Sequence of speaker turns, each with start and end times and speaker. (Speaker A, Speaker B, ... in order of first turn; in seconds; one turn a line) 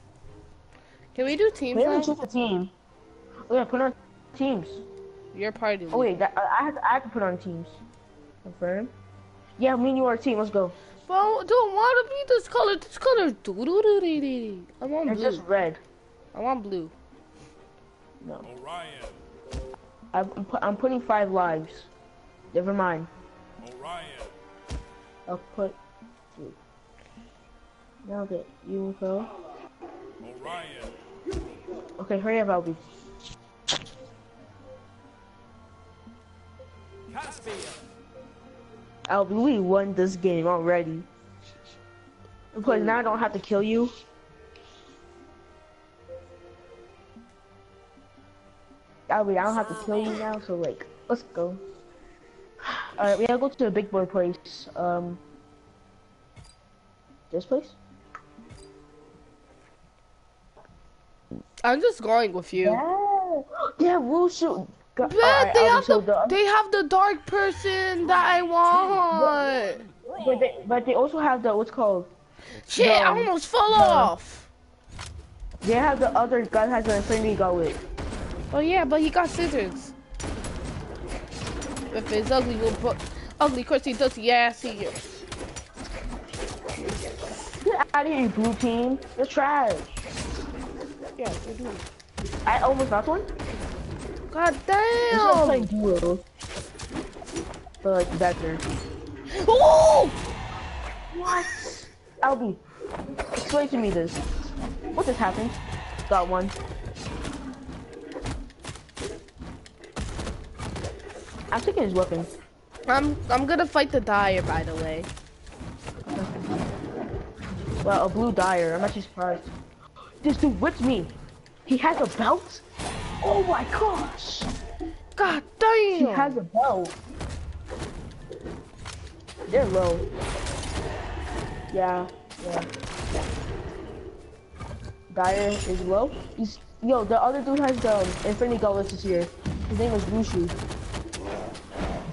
Speaker A: 1.1-2.1
Speaker B: 1.7-2.7
Speaker B: 3.5-4.8
Speaker A: 5.3-6.1
Speaker B: 5.9-7.8
Speaker B: 8.4-8.9
Speaker B: 9.6-10.7
Speaker A: 11.1-15.4
Speaker B: 15.1-15.8
Speaker A: 16.3-16.9
Speaker B: 18.2-18.5
Speaker C: 18.4-19.2
Speaker B: 20.1-21.9
Speaker B: 22.5-23.1
Speaker C: 23.6-24.3
Speaker B: 25.3-25.8
Speaker B: 28.0-29.3
Speaker C: 30.2-30.9
Speaker B: 32.0-32.8
Speaker C: 37.1-37.9
Speaker B: 39.1-41.1
Speaker B: 42.5-43.9
Speaker B: 49.1-51.6
Speaker A: 49.6-50.2
Speaker B: 52.6-55.2
Speaker B: 57.3-57.8
Speaker A: 61.6-62.8
Speaker B: 62.5-66.4
Speaker A: 65.0-69.8
Speaker C: 68.0-70.7
Speaker B: 70.2-72.1
Speaker A: 72.7-74.5
Speaker B: 72.7-74.1
Speaker B: 75.6-77.8
Speaker A: 78.5-79.9
Speaker A: 81.9-85.0
Speaker B: 87.6-89.9
Speaker A: 91.2-91.8
Speaker B: 92.5-93.3
Speaker A: 94.3-95.7
Speaker B: 95.1-96.2
Speaker B: 97.8-98.6
Speaker A: 99.3-100.2
Speaker B: 101.1-102.6
Speaker B: 103.4-104.2
Speaker B: 104.9-106.5
Speaker B: 111.5-112.3
Speaker A: 112.9-115.1
Speaker B: 116.1-116.7
Speaker B: 117.8-119.5
Speaker B: 120.2-121.2
Speaker B: 121.7-122.6
Speaker B: 123.2-124.5
Speaker A: 125.2-126.4
Speaker B: 126.0-127.0
Speaker B: 129.5-130.1
Speaker B: 131.7-132.7
Speaker B: 135.1-140.6